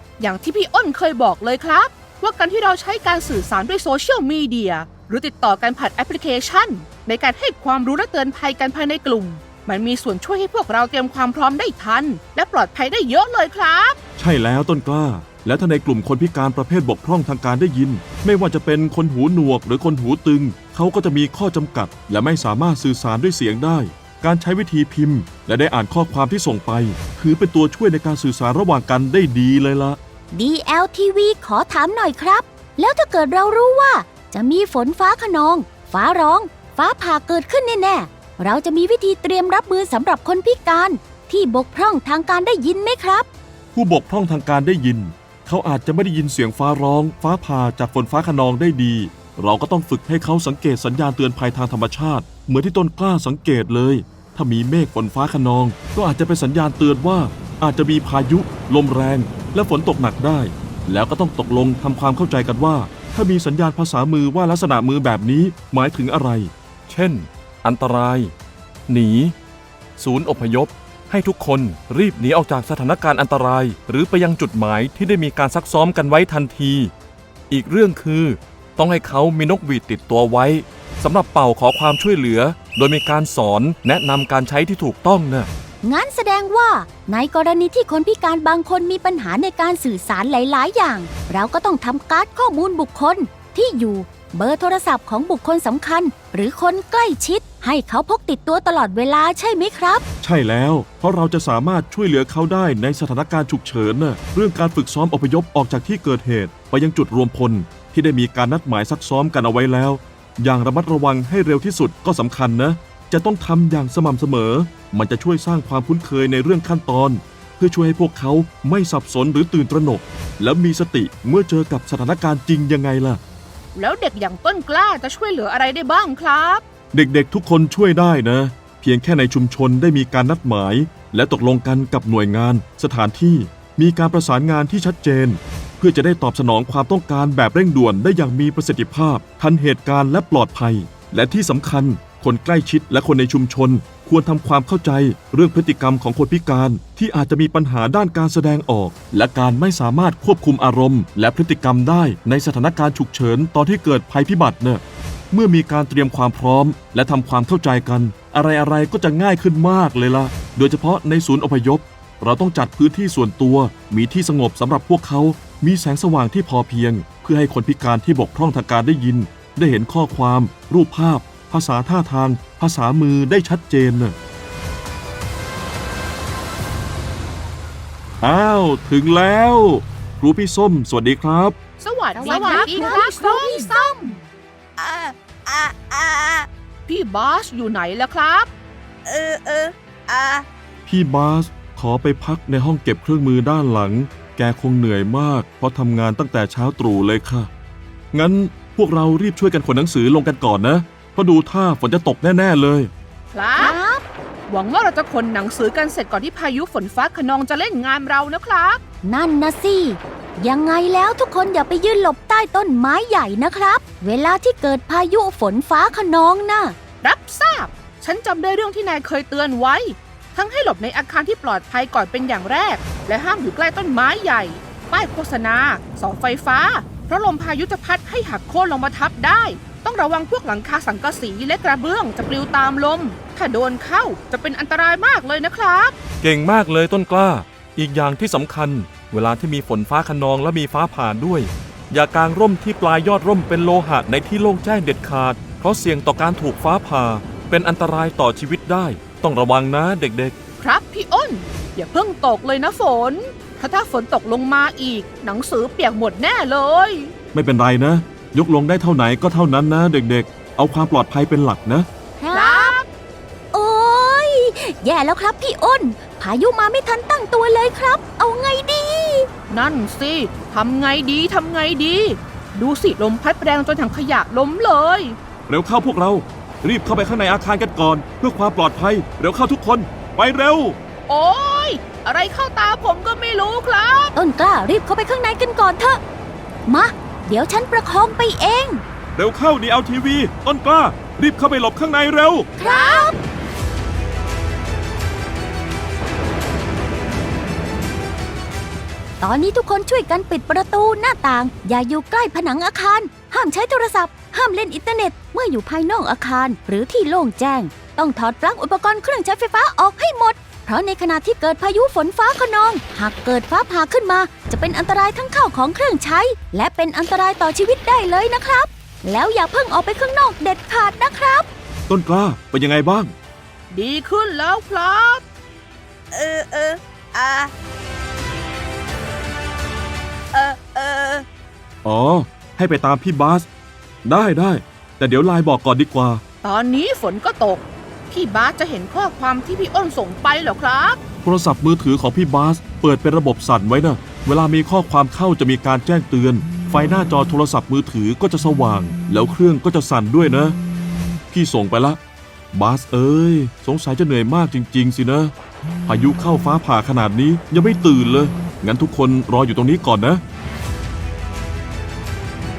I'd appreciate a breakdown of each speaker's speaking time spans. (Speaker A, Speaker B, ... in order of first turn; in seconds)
Speaker A: 0.2-14.0, 123.8-126.6, 181.8-184.2, 186.9-188.5, 203.3-203.8, 204.5-208.8, 217.0-235.9, 250.6-257.1, 262.3-262.9, 269.5-275.2, 281.1-284.1, 292.6-293.1, 323.7-325.2, 336.4-341.0
Speaker B: 14.2-30.0, 43.7-68.3, 68.9-69.3, 70.0-76.9, 77.5-85.5, 100.2-123.2, 126.9-174.1, 178.2-181.6, 190.8-197.5, 198.1-202.9, 236.2-250.3, 257.3-261.9, 275.5-280.8, 289.1-292.5, 321.9-323.1, 331.8-333.5, 334.0-336.2, 341.2-350.6, 351.3-352.0, 352.5-355.3, 355.9-360.2
Speaker C: 30.3-43.3, 85.8-100.0, 182.2-183.7, 203.6-204.0, 209.0-216.7, 262.2-262.7, 263.5-269.3, 284.1-286.0, 286.7-288.8, 292.6-293.2, 299.2-321.4
Speaker D: 182.2-183.2, 184.8-186.5, 189.0-190.4, 326.1-327.5, 330.3-331.2